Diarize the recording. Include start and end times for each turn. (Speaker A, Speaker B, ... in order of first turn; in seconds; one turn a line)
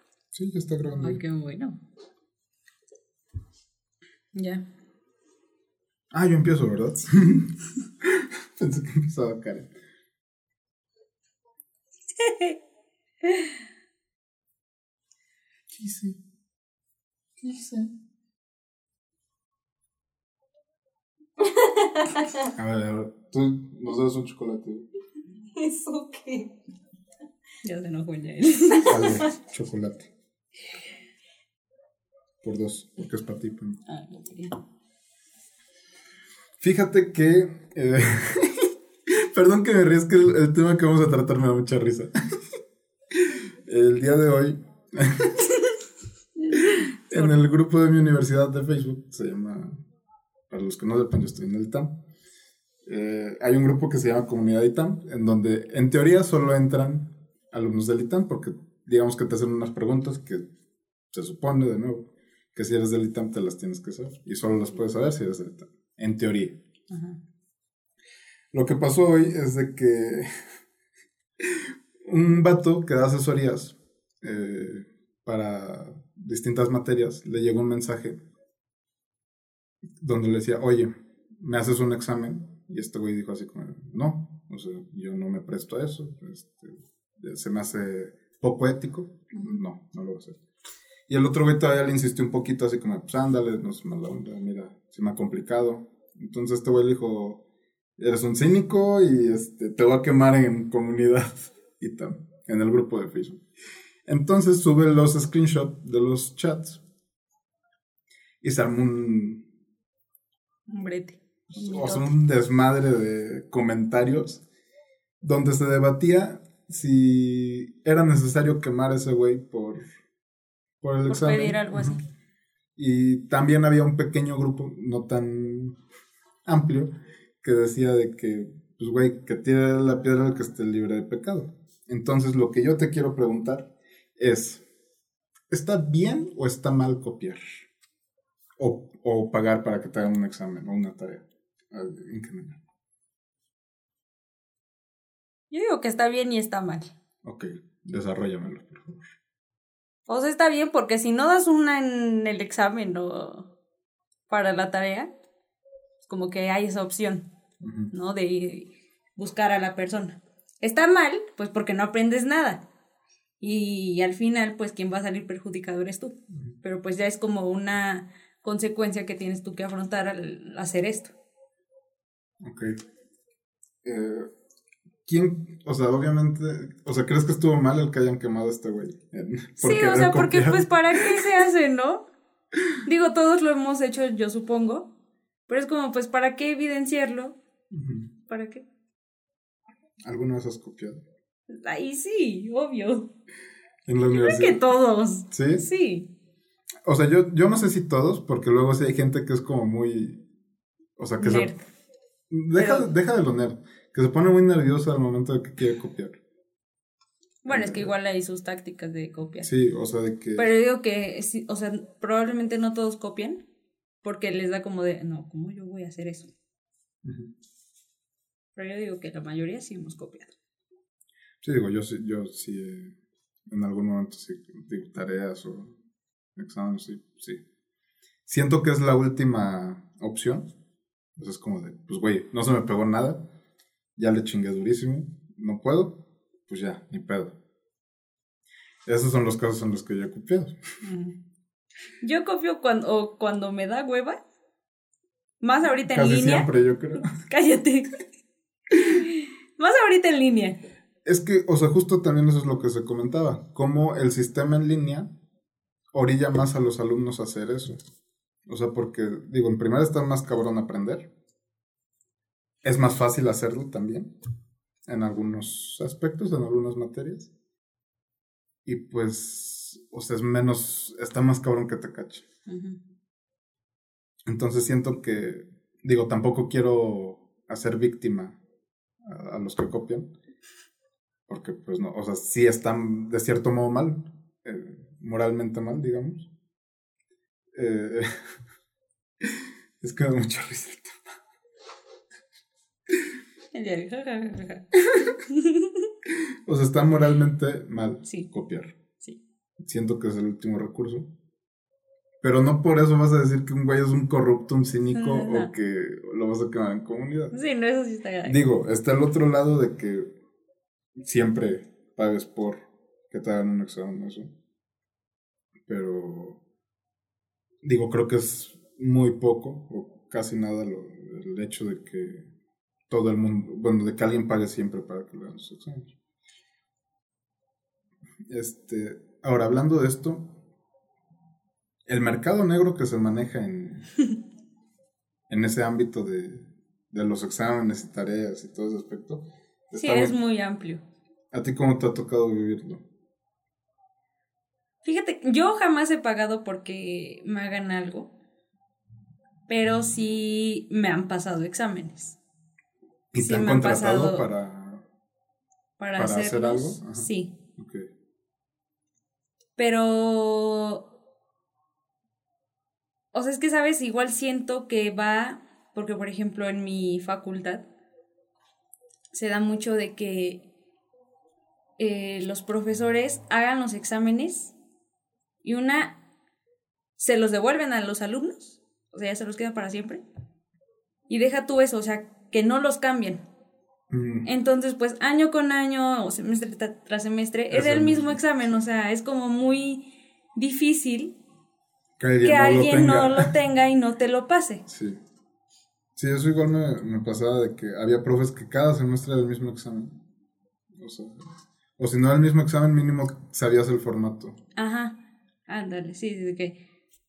Speaker A: 0.3-1.2
Speaker B: 0.9-1.8
Speaker B: 4.3-4.6
Speaker A: 6.1-9.7
Speaker B: 12.2-12.6
Speaker B: 13.2-13.6
Speaker A: 15.7-16.2
Speaker A: 17.4-17.9
Speaker B: 21.4-22.5
Speaker A: 22.5-24.9
Speaker B: 25.5-26.5
Speaker B: 27.6-29.3
Speaker A: 28.9-30.1
Speaker A: 32.4-33.8
Speaker B: 33.9-34.5
Speaker A: 36.6-42.1
Speaker A: 43.1-45.5
Speaker B: 46.4-47.3
Speaker A: 46.5-49.8
Speaker A: 50.5-52.0
Speaker A: 52.8-60.5
Speaker A: 61.1-66.6
Speaker B: 66.9-67.2
Speaker A: 68.5-70.3
Speaker A: 71.4-78.2
Speaker A: 80.0-90.4
Speaker A: 91.1-97.4
Speaker A: 98.0-103.4
Speaker A: 104.0-106.8
Speaker A: 108.4-109.4
Speaker B: 110.7-112.0
Speaker A: 111.5-114.4
Speaker A: 115.2-119.9
Speaker A: 120.8-122.0
Speaker B: 121.1-122.0
Speaker A: 122.8-125.8
Speaker A: 126.4-134.6
Speaker A: 135.5-137.4
Speaker A: 138.6-142.6
Speaker B: 145.5-146.9
Speaker A: 147.2-149.1
Speaker B: 150.1-153.5
Speaker B: 154.3-155.1
Speaker B: 156.0-157.3
Speaker A: 157.6-157.9
Speaker B: 157.9-162.6
Speaker B: 163.4-171.1
Speaker A: 172.4-172.8
Speaker A: 173.8-174.3
Speaker A: 175.1-181.4
Speaker B: 179.6-182.1
Speaker B: 182.8-184.9
Speaker B: 185.5-187.3
Speaker A: 187.7-188.1
Speaker B: 188.3-188.6
Speaker A: 190.0-191.0
Speaker B: 191.5-193.1
Speaker A: 193.8-194.6
Speaker B: 194.1-196.1
Speaker A: 195.3-195.6
Speaker A: 196.8-200.2
Speaker A: 201.0-201.5
Speaker B: 201.2-201.6
Speaker A: 202.3-206.2
Speaker B: 202.6-202.9
Speaker B: 207.4-209.5
Speaker A: 207.5-207.9
Speaker A: 209.4-210.5
Speaker B: 210.3-213.4
Speaker B: 214.0-216.3
Speaker A: 217.0-217.3
Speaker B: 218.6-220.3
Speaker A: 221.4-222.9
Speaker A: 223.5-225.8
Speaker A: 226.3-227.4
Speaker A: 228.2-230.5
Speaker A: 231.2-233.2
Speaker A: 234.0-237.3
Speaker A: 238.8-240.6
Speaker B: 240.8-241.1
Speaker B: 242.0-244.2
Speaker B: 245.4-246.5
Speaker A: 245.9-247.1
Speaker B: 247.0-248.0
Speaker B: 248.8-250.6
Speaker A: 251.0-255.1
Speaker A: 255.9-257.8
Speaker A: 258.5-261.1
Speaker A: 262.6-264.1
Speaker A: 264.9-267.3
Speaker A: 268.6-272.2
Speaker B: 272.5-272.8
Speaker A: 274.2-278.4
Speaker A: 279.0-280.1
Speaker A: 281.3-286.3
Speaker A: 287.5-288.1
Speaker A: 289.2-291.1
Speaker B: 293.5-295.9
Speaker A: 296.1-298.7
Speaker A: 299.6-301.1
Speaker A: 302.2-307.3
Speaker B: 304.9-305.5
Speaker B: 307.3-308.4
Speaker A: 308.2-310.1
Speaker A: 311.0-314.3
Speaker A: 315.7-316.4
Speaker A: 317.6-322.3
Speaker A: 322.9-325.9
Speaker A: 328.3-330.3
Speaker A: 331.9-333.9
Speaker A: 335.3-340.1
Speaker B: 339.7-340.8
Speaker A: 341.3-342.8
Speaker B: 344.8-348.1
Speaker B: 349.5-352.2
Speaker A: 353.1-354.8
Speaker B: 353.2-354.2
Speaker B: 355.8-357.3
Speaker A: 355.9-357.9
Speaker B: 359.6-360.9
Speaker B: 363.1-367.6
Speaker B: 369.1-370.4
Speaker B: 371.8-374.5
Speaker B: 375.4-376.0
Speaker B: 377.0-380.0
Speaker B: 381.1-383.2
Speaker A: 383.9-384.3
Speaker B: 384.2-391.1
Speaker A: 387.5-388.6
Speaker A: 392.0-393.3
Speaker B: 392.2-394.6
Speaker A: 394.7-395.0
Speaker A: 395.9-400.0
Speaker A: 400.8-401.2
Speaker A: 401.8-404.4
Speaker B: 404.6-406.6